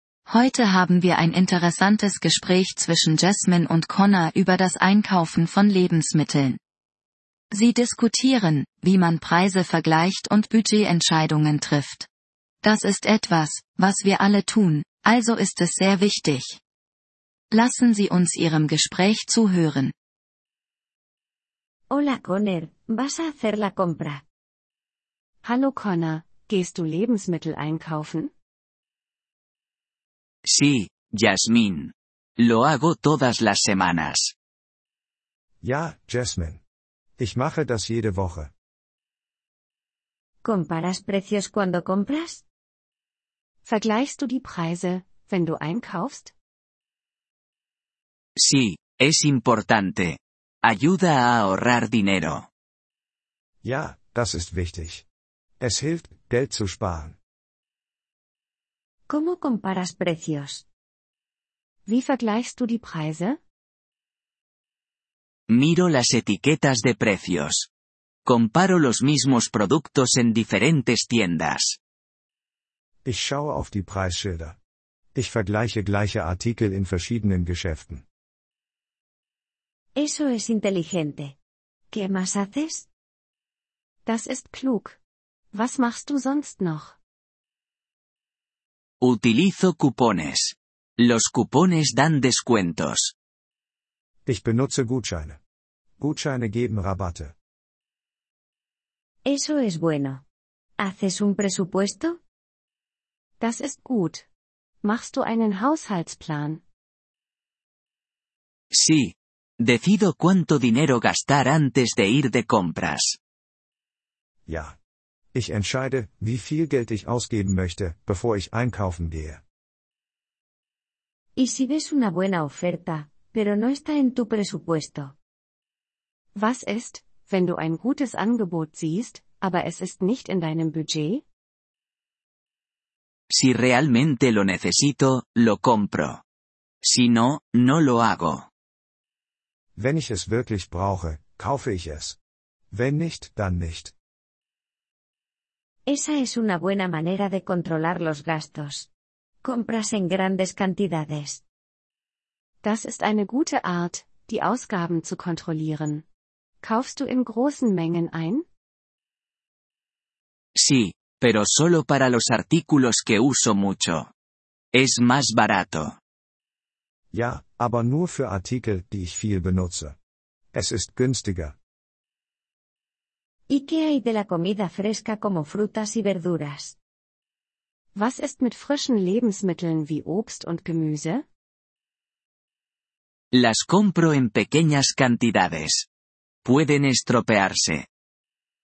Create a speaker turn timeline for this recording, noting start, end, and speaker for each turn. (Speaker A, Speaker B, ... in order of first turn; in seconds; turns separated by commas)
Speaker A: 0.2-6.6, Speaker A: 7.5-12.1, Speaker A: 12.6-16.6, Speaker A: 17.5-19.9, Speaker B: 21.9-24.2, Speaker C: 25.4-28.3, Speaker D: 30.5-34.3, Speaker E: 35.6-36.6, Speaker E: 37.2-38.5, Speaker B: 40.4-42.4, Speaker C: 43.6-46.3, Speaker D: 48.4-52.5, Speaker E: 53.6-55.0, Speaker E: 55.6-57.2, Speaker B: 59.1-60.6, Speaker C: 61.9-63.4, Speaker D: 65.5-67.7, Speaker D: 68.2-71.8, Speaker E: 73.0-74.6, Speaker E: 75.1-78.0, Speaker B: 80.0-81.3, Speaker B: 81.9-82.9, Speaker C: 84.0-85.0, Speaker C: 85.5-87.0, Speaker D: 89.0-93.1, Speaker E: 94.2-95.4, Speaker E: 96.0-97.3, Speaker B: 99.2-100.2, Speaker B: 100.8-102.2, Speaker C: 103.4-104.2, Speaker C: 104.8-106.6, Speaker D: 108.7-113.2, Speaker E: 114.5-114.7, Speaker E: 115.3-119.4, Speaker B: 121.3-125.1, Speaker C: 126.3-131.2, Speaker D: 133.3-136.2, Speaker D: 136.8-138.5, Speaker E: 139.8-142.2, Speaker E: 142.7-143.9, Speaker B: 145.9-148.9, Speaker B: 149.4-151.4, Speaker C: 152.6-156.0, Speaker C: 156.6-158.4, Speaker D: 160.6-164.1, Speaker D: 164.7-166.0, Speaker E: 167.1-169.9, Speaker E: 170.5-171.6, Speaker B: 173.5-176.8, Speaker C: 177.9-181.2, Speaker D: 183.3-185.9, Speaker D: 186.4-187.8